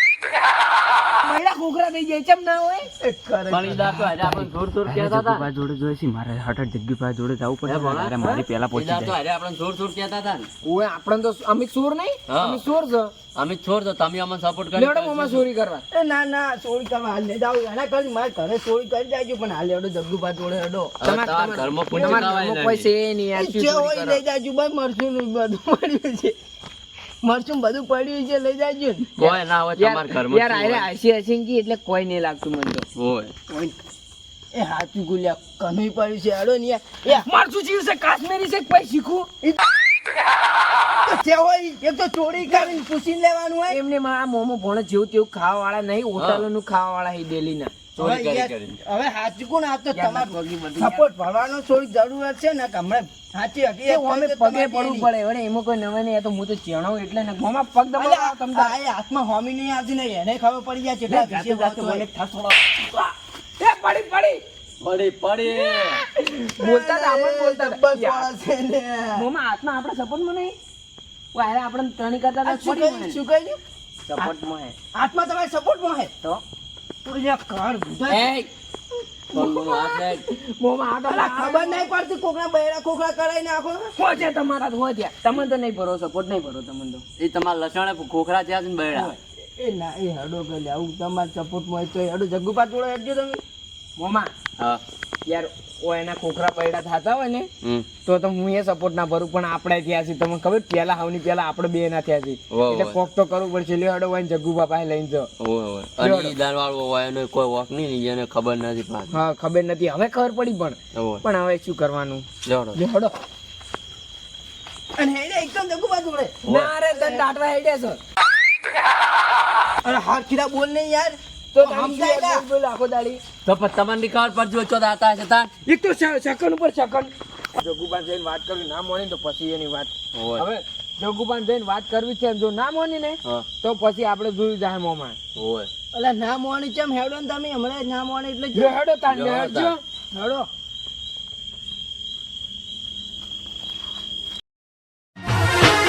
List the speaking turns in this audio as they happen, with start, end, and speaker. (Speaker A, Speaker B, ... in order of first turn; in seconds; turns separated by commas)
Speaker A: 1.2-2.9, Speaker B: 3.0-3.8, Speaker C: 3.5-5.5, Speaker D: 3.7-9.1, Speaker C: 7.6-10.5, Speaker A: 10.6-13.1, Speaker C: 12.3-12.6, Speaker C: 13.3-15.4, Speaker A: 14.7-15.8, Speaker B: 15.9-20.9, Speaker C: 21.0-22.9, Speaker A: 21.0-24.2, Speaker B: 21.9-22.4, Speaker B: 23.3-26.3, Speaker B: 27.2-29.1, Speaker C: 29.2-30.9, Speaker A: 29.2-32.9, Speaker C: 32.9-33.3, Speaker B: 33.5-33.8, Speaker B: 34.5-37.3, Speaker A: 37.1-39.3, Speaker B: 41.0-43.8, Speaker A: 42.4-42.8, Speaker A: 43.7-47.7, Speaker C: 46.2-46.4, Speaker C: 47.9-48.8, Speaker B: 48.0-55.1, Speaker A: 49.9-51.0, Speaker A: 53.9-58.8, Speaker B: 58.0-62.1, Speaker D: 61.1-62.6, Speaker A: 63.6-64.4, Speaker C: 64.8-66.0, Speaker A: 65.6-68.3, Speaker B: 66.6-69.2, Speaker A: 69.2-70.5, Speaker A: 71.3-73.2, Speaker B: 72.4-73.6, Speaker A: 74.1-74.7, Speaker B: 74.9-76.1, Speaker B: 77.0-78.3, Speaker A: 78.1-78.5, Speaker C: 79.3-80.2, Speaker A: 79.3-79.6, Speaker A: 80.2-81.9, Speaker B: 81.1-83.9, Speaker A: 84.0-87.0, Speaker C: 87.2-89.2, Speaker B: 89.6-93.4, Speaker A: 94.0-94.3, Speaker A: 95.3-97.5, Speaker C: 97.6-97.9, Speaker A: 98.0-105.3, Speaker C: 102.5-103.0, Speaker C: 105.4-109.1, Speaker A: 106.0-106.3, Speaker A: 109.1-113.2, Speaker C: 110.9-111.2, Speaker C: 112.4-112.8, Speaker B: 115.0-116.4, Speaker C: 116.4-116.7, Speaker A: 116.4-118.0, Speaker B: 116.9-117.2, Speaker B: 119.8-122.4, Speaker A: 121.5-123.2, Speaker C: 123.4-125.5, Speaker A: 125.7-135.2, Speaker C: 130.1-130.4, Speaker C: 135.3-135.7, Speaker B: 135.9-138.8, Speaker A: 138.5-139.8, Speaker C: 139.1-139.7, Speaker B: 140.1-140.5